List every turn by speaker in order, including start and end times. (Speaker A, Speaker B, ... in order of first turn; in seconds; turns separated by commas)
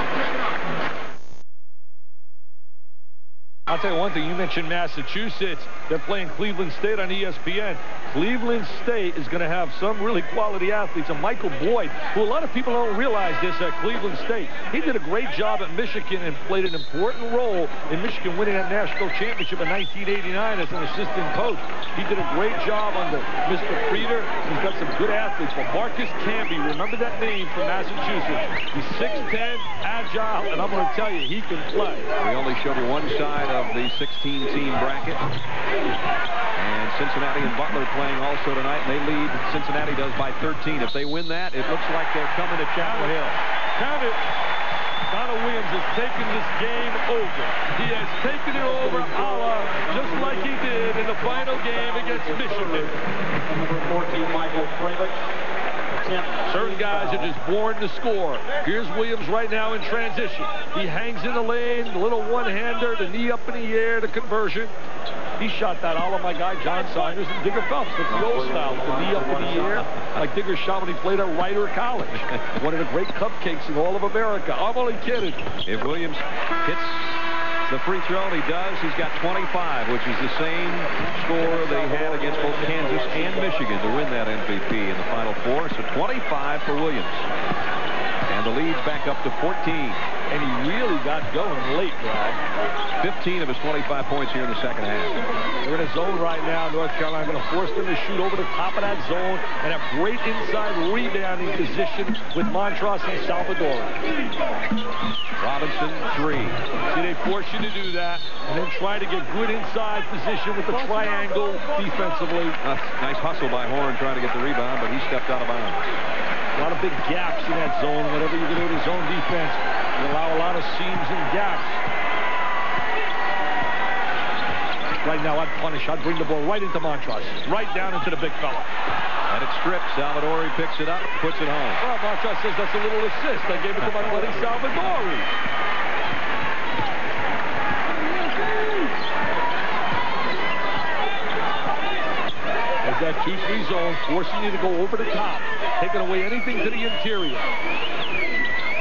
Speaker A: 3.7-32.1, Speaker B: 32.2-35.2, Speaker B: 36.5-43.4, Speaker A: 42.8-43.1, Speaker A: 43.8-44.2, Speaker A: 45.1-52.9, Speaker C: 48.7-50.6, Speaker C: 51.4-55.2, Speaker C: 56.0-57.3, Speaker A: 56.5-64.7, Speaker A: 65.4-75.5, Speaker C: 68.1-69.9, Speaker B: 75.7-87.3, Speaker C: 81.3-83.7, Speaker B: 88.3-90.0, Speaker A: 90.3-92.4, Speaker B: 93.0-95.2, Speaker A: 95.6-103.9, Speaker B: 105.4-106.6, Speaker A: 106.9-112.6, Speaker B: 112.6-115.9, Speaker A: 116.6-121.7, Speaker A: 125.0-128.7, Speaker B: 129.3-131.8, Speaker A: 131.8-135.3, Speaker A: 142.8-147.5